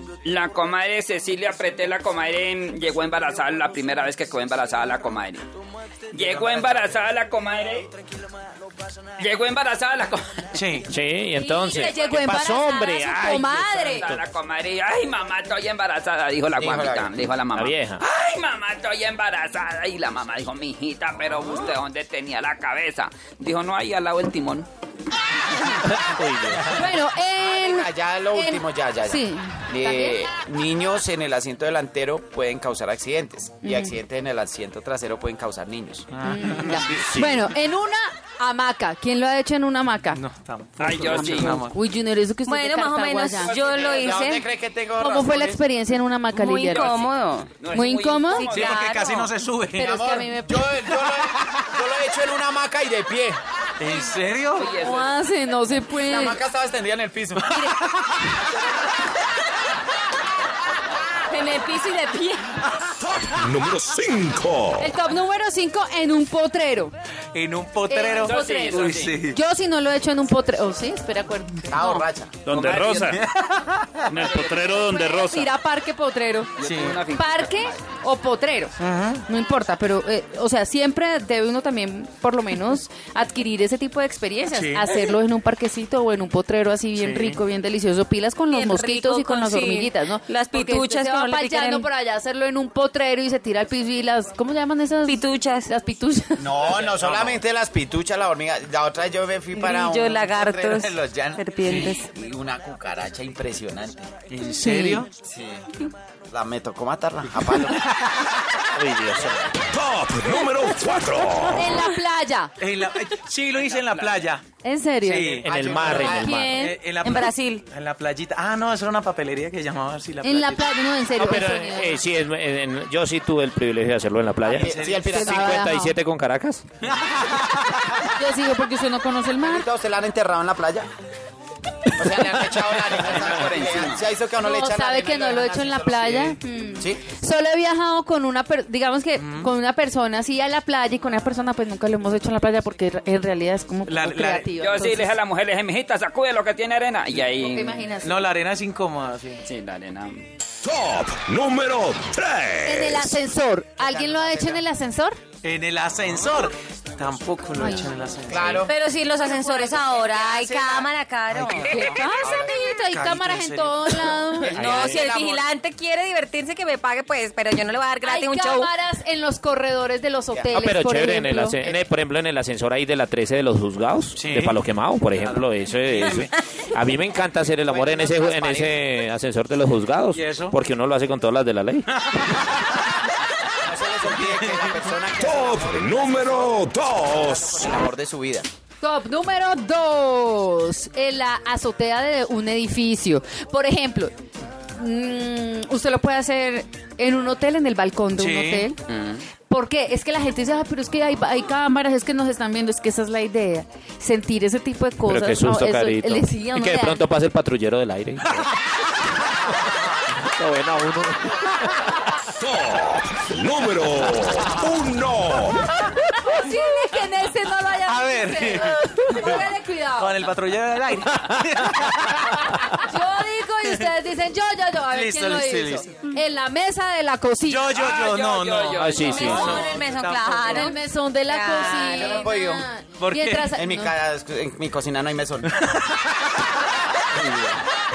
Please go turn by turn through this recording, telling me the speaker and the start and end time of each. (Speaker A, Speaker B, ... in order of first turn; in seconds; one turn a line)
Speaker A: 0.2-5.5
Speaker A: 6.1-7.9
Speaker B: 6.2-6.6
Speaker A: 9.2-10.7
Speaker B: 10.6-10.9
Speaker C: 10.9-14.2
Speaker D: 11.4-14.1
Speaker A: 14.0-24.7
Speaker E: 16.6-17.1
Speaker C: 17.5-18.0
Speaker C: 25.9-26.8
Speaker E: 26.6-36.2
Speaker D: 26.7-30.2
Speaker D: 33.6-34.0
Speaker B: 36.1-37.0
Speaker D: 36.2-40.2
Speaker C: 37.0-37.5
Speaker B: 40.1-41.8
Speaker A: 40.8-41.6
Speaker D: 41.2-43.5
Speaker F: 42.5-44.5
Speaker A: 43.4-44.3
Speaker E: 43.7-45.6
Speaker D: 45.0-47.0
Speaker F: 46.3-47.6
Speaker A: 46.7-48.9
Speaker D: 47.7-48.5
Speaker F: 48.5-49.4
Speaker B: 48.5-50.0
Speaker D: 49.8-50.9
Speaker E: 49.8-53.4
Speaker B: 53.8-54.8
Speaker A: 54.5-55.1
Speaker D: 54.8-56.4
Speaker E: 55.9-57.7
Speaker D: 57.5-57.9
Speaker F: 61.3-62.6
Speaker G: 63.0-64.9
Speaker D: 64.8-66.9
Speaker B: 67.3-69.4
Speaker D: 67.9-72.1
Speaker A: 68.2-69.2
Speaker E: 71.7-72.4
Speaker C: 72.5-73.2
Speaker A: 72.5-73.2
Speaker B: 73.1-74.1
Speaker A: 74.1-75.5
Speaker C: 74.1-75.2
Speaker D: 74.6-76.5
Speaker A: 76.6-77.7
Speaker B: 76.6-77.0
Speaker D: 77.1-96.7
Speaker B: 78.8-79.2
Speaker B: 84.5-84.8
Speaker B: 87.0-87.4
Speaker F: 88.5-91.9
Speaker F: 95.0-95.7
Speaker E: 96.4-104.1
Speaker B: 96.7-97.4
Speaker F: 99.5-102.1
Speaker B: 101.6-102.0
Speaker B: 104.3-105.1
Speaker D: 104.6-105.0
Speaker E: 105.2-107.9
Speaker B: 107.8-108.6
Speaker C: 108.7-109.5
Speaker G: 109.6-111.8
Speaker D: 111.5-112.5
Speaker B: 112.6-114.4
Speaker A: 113.5-114.3
Speaker D: 114.6-116.8
Speaker B: 115.0-120.7
Speaker C: 115.4-116.7
Speaker E: 115.5-116.5
Speaker F: 117.0-117.6
Speaker D: 120.2-122.0
Speaker C: 121.2-126.7
Speaker E: 124.4-125.6
Speaker B: 124.6-125.2
Speaker D: 125.1-126.0
Speaker B: 127.0-127.5
Speaker D: 128.2-129.7
Speaker E: 129.4-130.9
Speaker E: 131.9-137.0
Speaker A: 133.0-134.0
Speaker D: 134.4-145.2
Speaker B: 139.2-139.5
Speaker B: 143.9-144.5
Speaker A: 144.6-147.9
Speaker D: 147.2-148.2
Speaker B: 148.0-149.4
Speaker A: 149.5-150.3
Speaker G: 150.6-153.1
Speaker D: 152.6-155.2
Speaker E: 153.8-154.6
Speaker B: 155.4-158.7
Speaker D: 157.6-157.9
Speaker E: 158.3-158.8
Speaker F: 158.6-161.7
Speaker D: 159.2-160.0
Speaker E: 160.0-160.9
Speaker B: 161.3-161.7
Speaker D: 161.6-164.6
Speaker E: 161.8-162.6
Speaker B: 162.8-164.6
Speaker E: 164.4-165.5
Speaker F: 164.6-168.7
Speaker C: 164.6-165.1
Speaker D: 168.0-171.6
Speaker E: 170.3-170.7
Speaker C: 170.5-181.9
Speaker E: 171.6-171.9
Speaker B: 174.2-176.3
Speaker E: 177.6-178.8
Speaker B: 180.1-180.6
Speaker B: 182.0-182.5
Speaker E: 183.6-188.5
Speaker B: 184.1-184.9
Speaker G: 185.2-187.8
Speaker D: 188.8-194.1
Speaker D: 194.8-198.8
Speaker B: 198.2-198.7
Speaker A: 198.9-199.2
Speaker D: 199.5-207.0
Speaker C: 205.1-208.5
Speaker C: 210.2-211.9
Speaker G: 212.4-215.7
Speaker D: 216.1-220.2
Speaker B: 217.8-222.5
Speaker D: 222.6-227.7
Speaker B: 224.9-225.9
Speaker B: 227.5-230.8
Speaker A: 227.7-229.6
Speaker C: 228.7-229.6
Speaker F: 229.0-232.3
Speaker D: 230.5-234.0
Speaker E: 231.7-232.7
Speaker B: 233.0-233.5
Speaker E: 233.4-235.5
Speaker E: 237.1-237.6